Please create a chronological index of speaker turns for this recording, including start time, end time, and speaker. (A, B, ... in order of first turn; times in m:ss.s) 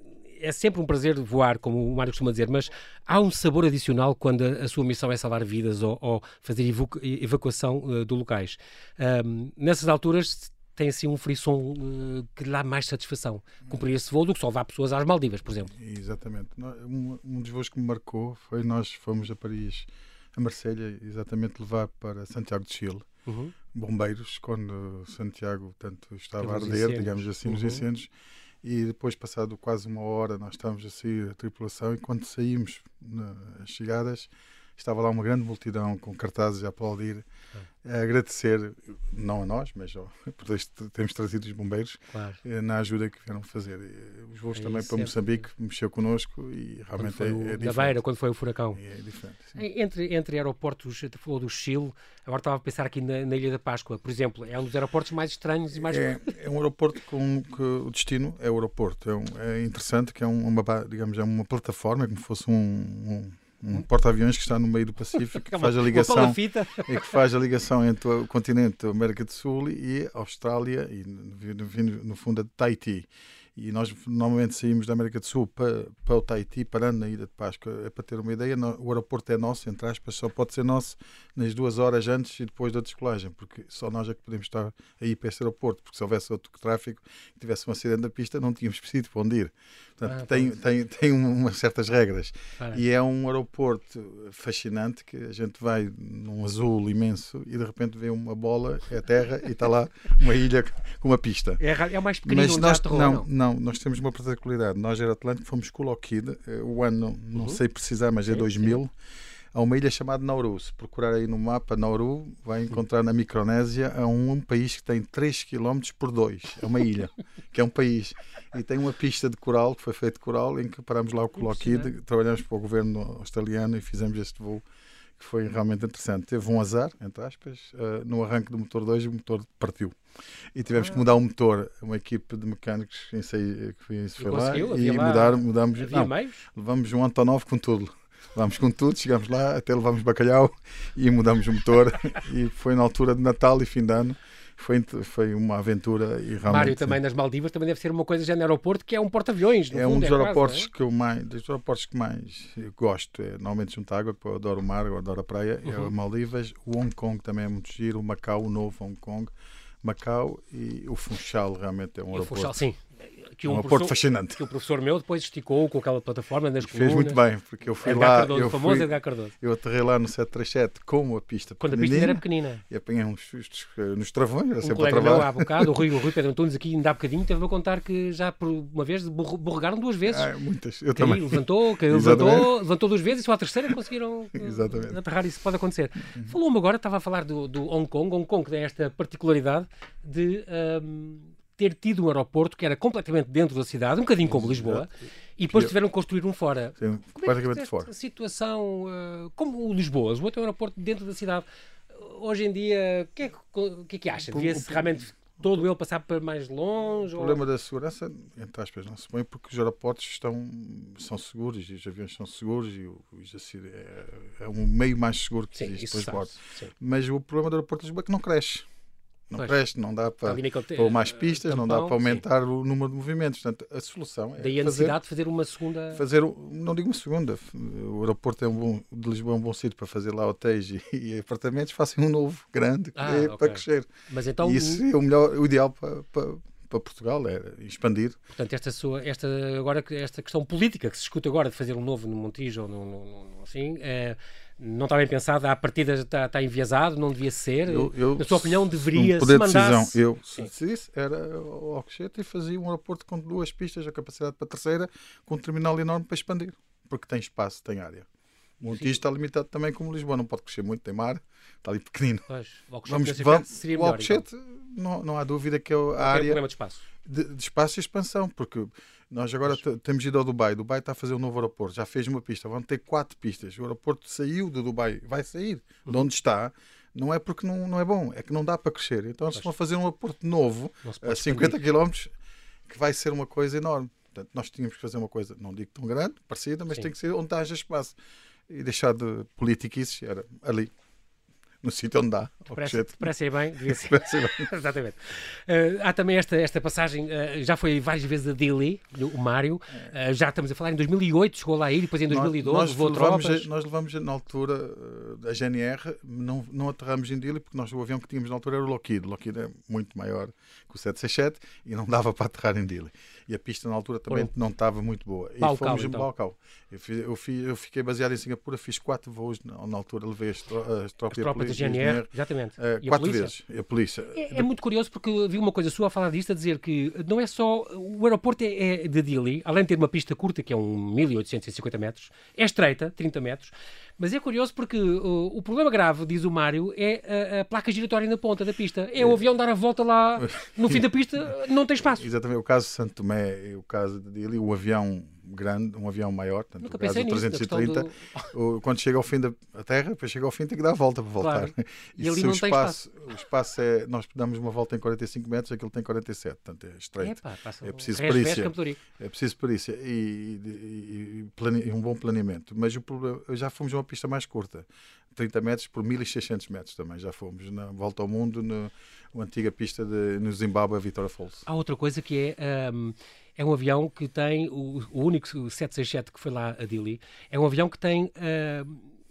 0:00.4-0:15.7 A
0:15.7-0:23.1 B
0:23.2-0:23.5 A
0:23.7-0:28.1 B
0:26.4-0:27.8 A
0:28.6-0:37.2 B
0:37.8-0:48.0 B
0:42.1-0:42.4 A
0:44.6-0:45.1 A
0:47.0-0:48.8 A
0:48.7-0:49.6 B
0:49.6-0:56.3 A
0:55.7-1:41.6 B
1:05.3-1:07.2 A
1:30.1-1:30.5 A
1:41.6-1:43.3 A
1:42.2-1:48.9 B
1:48.3-1:48.8 A
1:49.5-2:04.6 B
2:01.4-2:01.9 A
2:05.2-2:10.0 B
2:10.5-2:27.0 B
2:10.8-2:11.0 A
2:14.2-2:16.4 A
2:26.5-2:30.7 A
2:29.7-2:42.6 B
2:35.6-2:35.9 A
2:42.1-2:47.2 A
2:43.5-2:44.4 B
2:46.6-2:56.0 B
2:47.8-2:49.3 A
2:51.6-2:52.6 A
2:54.6-3:00.3 A
3:00.1-3:02.5 B
3:01.0-3:27.4 A
3:04.3-3:05.0 B
3:06.1-3:06.4 B
3:14.3-3:14.9 B
3:16.8-3:17.9 B
3:24.3-3:25.0 B
3:27.1-3:38.7 B
3:35.5-3:36.7 A
3:39.3-3:45.0 B
3:40.2-3:42.2 A
3:44.4-3:46.0 A
3:45.9-3:53.9 B
3:53.0-3:54.8 A
3:54.4-3:58.2 B
3:58.3-4:10.5 A
4:07.7-4:18.1 B
4:18.6-4:22.2 B
4:18.7-4:18.9 A
4:22.3-4:24.2 A
4:22.8-4:26.4 B
4:26.0-4:26.8 A
4:27.0-4:42.1 B
4:40.8-4:41.6 A
4:42.6-4:48.0 B
4:48.5-4:50.7 B
4:51.6-4:54.5 B
4:52.5-5:03.5 A
5:02.1-5:24.5 B
5:15.4-5:16.1 A
5:21.1-5:23.3 A
5:24.1-5:42.1 A
5:40.2-5:40.8 B
5:41.8-6:11.4 B
5:46.6-5:48.3 A
5:51.2-5:52.8 A
5:57.0-5:58.8 A
6:11.4-6:18.9 A